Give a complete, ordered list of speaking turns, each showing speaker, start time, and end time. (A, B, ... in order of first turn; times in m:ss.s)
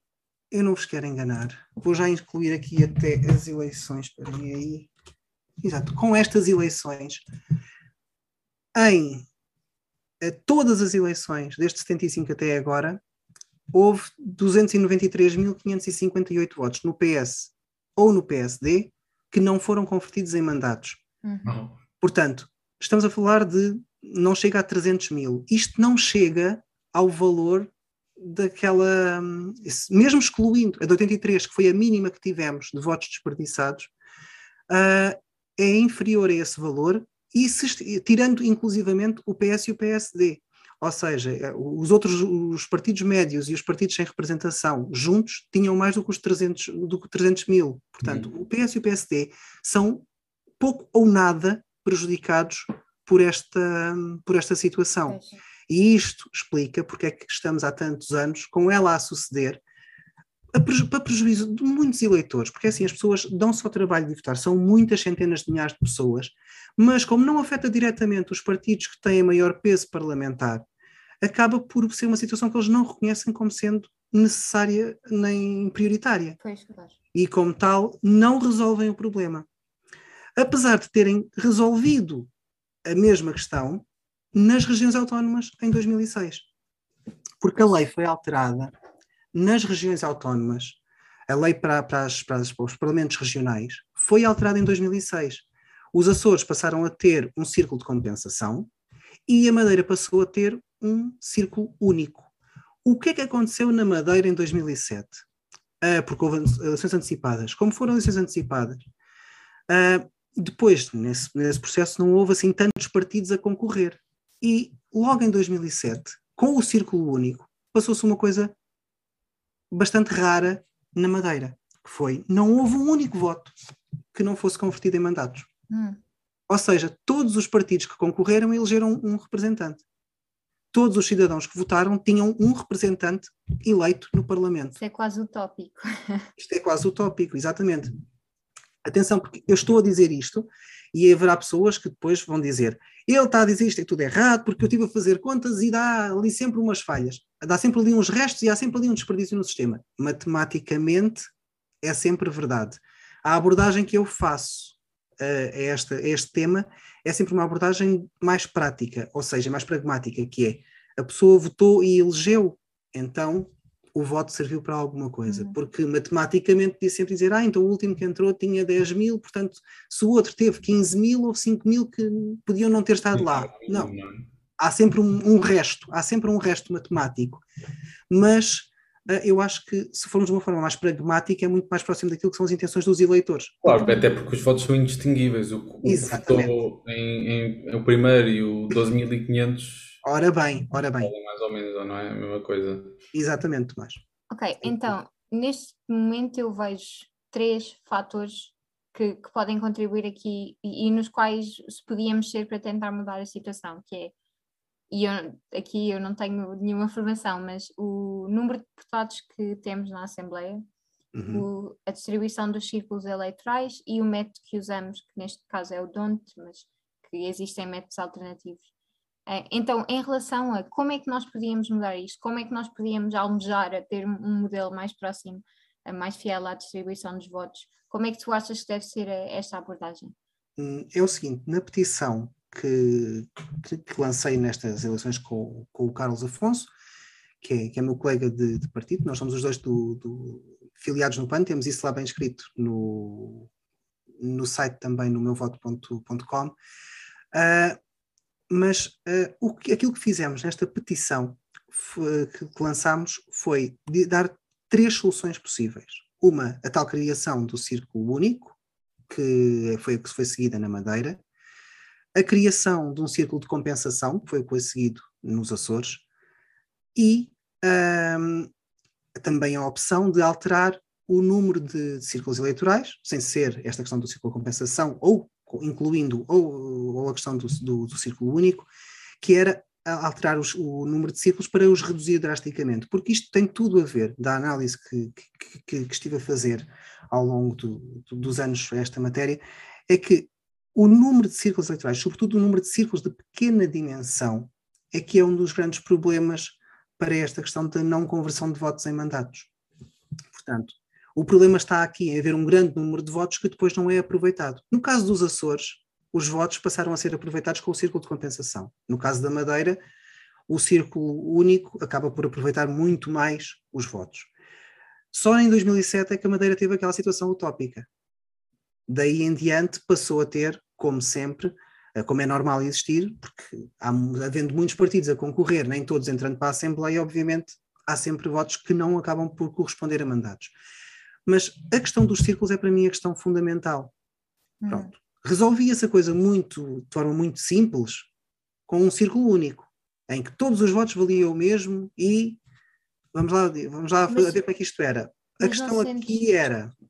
0:00.5-0:04.9 A
0:05.6-0:07.2 A
0:08.7-0:09.2 A
0:10.2-0:13.0 A
0:13.7-0:21.0 A
0:21.2-0:21.6 B
0:22.0-0:33.9 A
0:34.7-0:50.0 A
0:50.6-0:59.6 A
0:55.1-0:55.4 B
1:00.5-1:10.7 A
1:11.2-1:16.4 A
1:16.4-1:17.0 B
1:17.1-1:19.5 A
1:20.4-1:22.3 A
1:22.8-1:26.5 A
1:27.4-1:28.7 A
1:29.3-1:30.8 A
1:31.3-1:38.7 A
1:39.3-1:42.3 A
1:42.8-1:45.2 A
1:45.8-1:48.8 A
1:49.7-1:58.5 A
1:59.7-2:03.5 A
2:04.1-2:05.5 A
2:05.7-2:06.0 B
2:06.5-2:09.8 A
2:10.7-2:14.8 A
2:14.8-2:16.3 B
2:16.4-2:17.9 A
2:18.8-2:31.3 A
2:31.8-2:53.9 A
2:45.3-2:45.6 B
2:53.2-2:54.2 C
2:54.6-2:57.4 A
2:58.1-3:03.6 A
3:03.6-3:10.0 C
3:03.8-3:04.0 B
3:05.8-3:06.6 A
3:10.0-3:11.1 A
3:11.0-3:13.0 C
3:13.1-3:14.0 A
3:14.3-3:24.1 B
3:14.6-3:14.9 A
3:24.9-3:30.7 B
3:31.1-3:31.5 A
3:31.3-3:38.6 B
3:39.3-3:50.1 B
3:50.6-3:56.7 A
3:57.4-4:03.5 A
4:04.2-4:06.5 A
4:07.3-4:07.8 A
4:08.5-4:18.6 A
4:19.1-4:21.2 A
4:22.1-4:26.0 A
4:27.0-4:28.5 A
4:29.2-4:38.7 A
4:39.2-4:59.5 A
5:00.3-5:09.8 A
5:10.5-5:14.3 A
5:15.1-5:17.9 A
5:18.9-5:30.6 A
5:31.2-5:33.9 A
5:34.6-5:34.9 B
5:34.7-5:38.1 A
5:38.7-5:42.4 A
5:43.1-5:46.7 A
5:44.1-5:44.4 B
5:45.4-5:46.2 B